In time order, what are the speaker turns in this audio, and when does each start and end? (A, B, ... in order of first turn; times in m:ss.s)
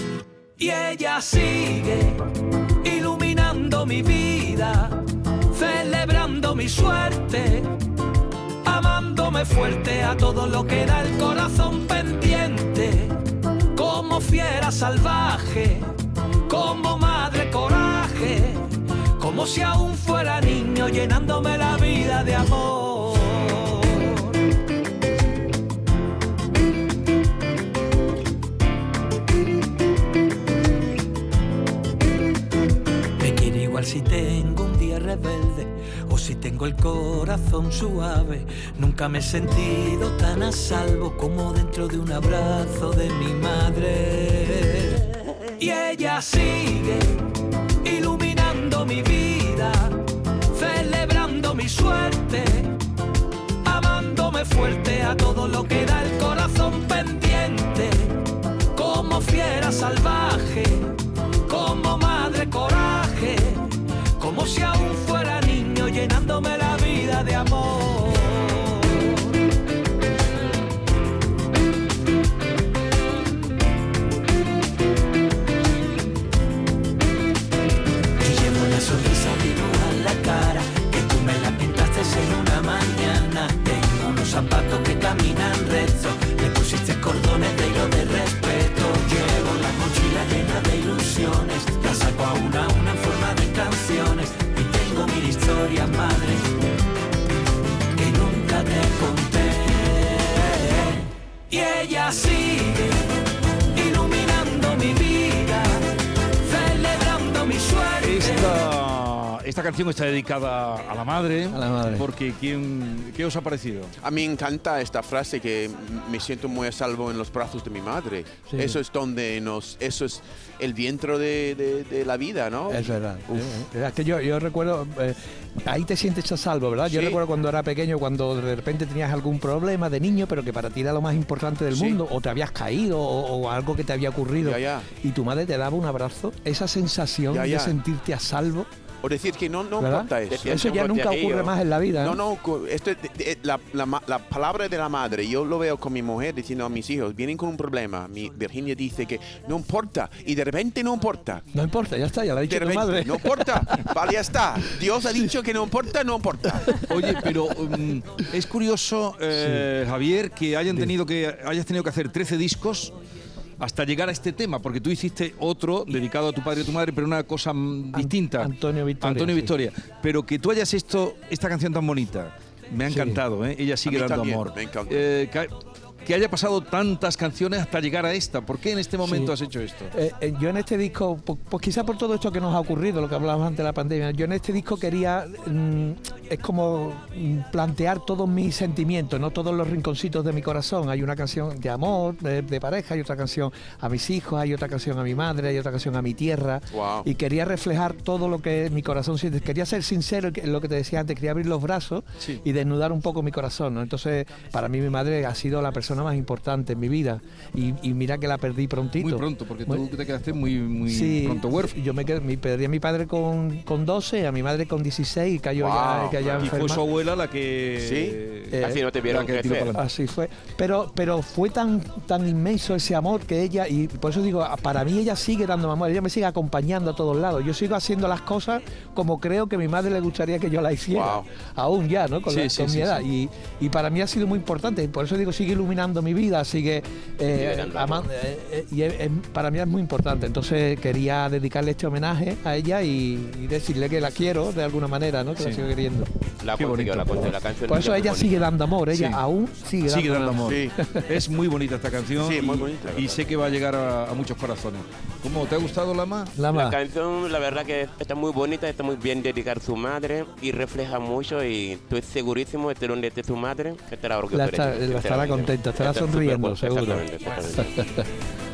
0:00.6-0:02.2 A
0:02.8-0:07.7 A
0:08.6-0:13.2 A
0:13.7-0:15.9 A
0:16.5-0:24.4 A
0:33.2-0:47.3 A
0:47.8-0:52.8 A
0:53.6-0:58.2 A
0:58.7-1:09.3 A
1:18.2-1:36.6 A
1:38.0-1:43.1 A
1:43.7-1:45.9 A
1:46.4-1:48.6 A
1:48.0-1:53.9 B
1:51.5-1:52.1 C
1:54.0-2:03.6 D
1:58.5-1:58.8 C
2:02.7-2:18.7 C
2:06.9-2:07.2 D
2:11.7-2:12.0 D
2:14.4-2:14.9 D
2:17.3-2:17.8 D
2:19.0-2:20.7 D
2:19.8-2:22.2 C
2:20.3-2:21.5 E
2:22.0-2:31.5 D
2:31.5-2:33.9 C
2:32.5-2:36.8 D
2:36.8-2:43.0 B
2:39.3-2:39.7 C
2:43.6-2:59.9 B
2:47.9-2:49.5 C
2:52.9-2:53.2 C
2:53.9-2:55.1 D
2:59.0-2:59.3 C
2:59.9-3:29.8 C
3:16.7-3:17.1 D
3:29.0-3:31.8 B
3:30.8-3:36.8 C
3:35.6-3:36.6 D
3:36.4-3:39.8 B
3:37.8-3:38.2 D
3:38.5-3:38.8 C
3:38.6-3:39.8 E
3:39.7-4:06.1 C
3:50.9-3:51.3 D
3:52.3-3:53.1 B
3:57.3-3:58.1 E
4:05.4-4:05.6 B
4:06.4-4:08.5 E
4:06.6-4:07.4 B
4:07.7-4:11.0 C
4:08.9-4:09.2 B
4:09.8-4:16.4 B
4:10.4-4:10.7 D
4:12.2-4:12.9 D
4:12.7-4:13.2 E
4:16.4-4:16.8 C
4:16.5-4:27.8 E
4:24.3-4:27.0 C
4:27.6-4:28.1 C